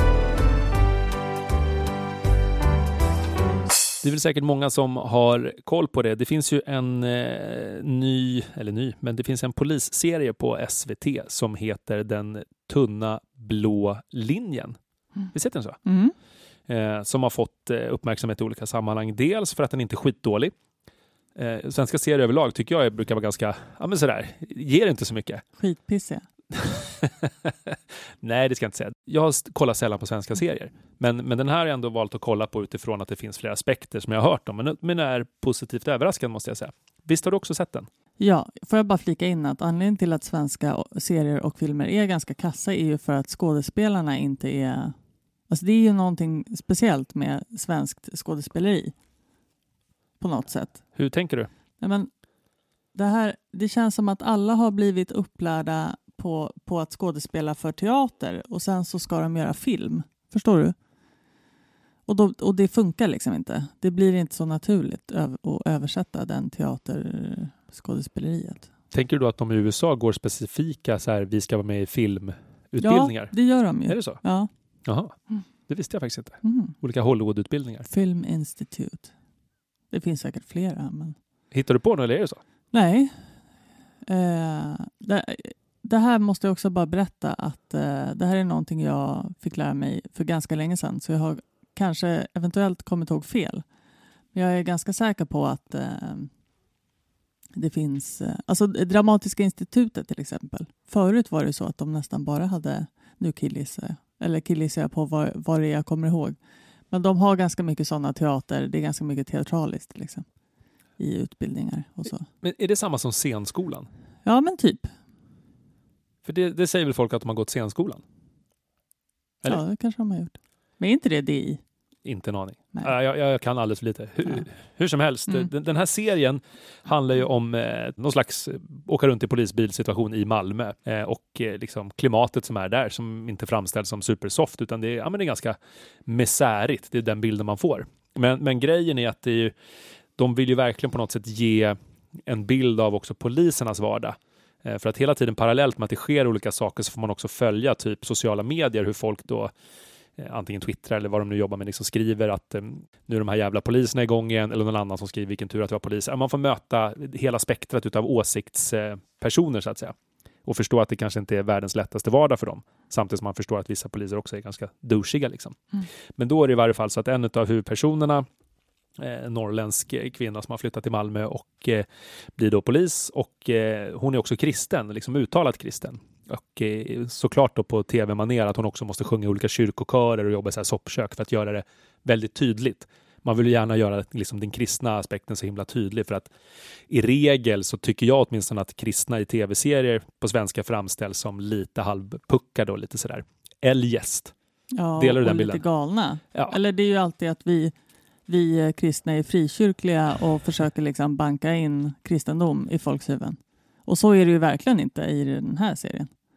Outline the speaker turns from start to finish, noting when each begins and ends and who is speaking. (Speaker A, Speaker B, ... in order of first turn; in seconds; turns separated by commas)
Speaker A: 4.0-14.8, Speaker A: 15.3-15.8, Speaker B: 15.8-16.1, Speaker A: 16.7-20.5, Speaker A: 21.4-25.4, Speaker B: 25.6-26.2, Speaker A: 26.5-37.9, Speaker B: 38.2-44.9, Speaker B: 45.5-48.9, Speaker B: 50.2-50.8, Speaker A: 50.9-51.5, Speaker B: 51.8-52.1, Speaker B: 52.9-60.7, Speaker B: 62.1-68.7, Speaker A: 68.9-74.2, Speaker B: 72.8-74.5, Speaker A: 74.8-75.2, Speaker A: 75.7-77.8, Speaker B: 76.4-76.7, Speaker B: 77.9-79.1, Speaker B: 79.9-81.2, Speaker A: 81.5-82.4, Speaker B: 82.7-83.3, Speaker B: 84.0-93.6, Speaker B: 94.3-96.3, Speaker B: 97.5-106.4, Speaker B: 106.9-110.2, Speaker B: 111.0-112.2, Speaker A: 112.4-113.9, Speaker B: 114.2-114.9, Speaker A: 116.2-118.0, Speaker B: 119.5-121.6, Speaker A: 122.0-139.5, Speaker A: 140.2-149.5, Speaker A: 150.2-165.6, Speaker A: 166.2-168.2, Speaker A: 169.0-186.3, Speaker A: 186.9-194.3, Speaker B: 194.7-197.7, Speaker A: 195.0-195.6, Speaker B: 198.3-206.1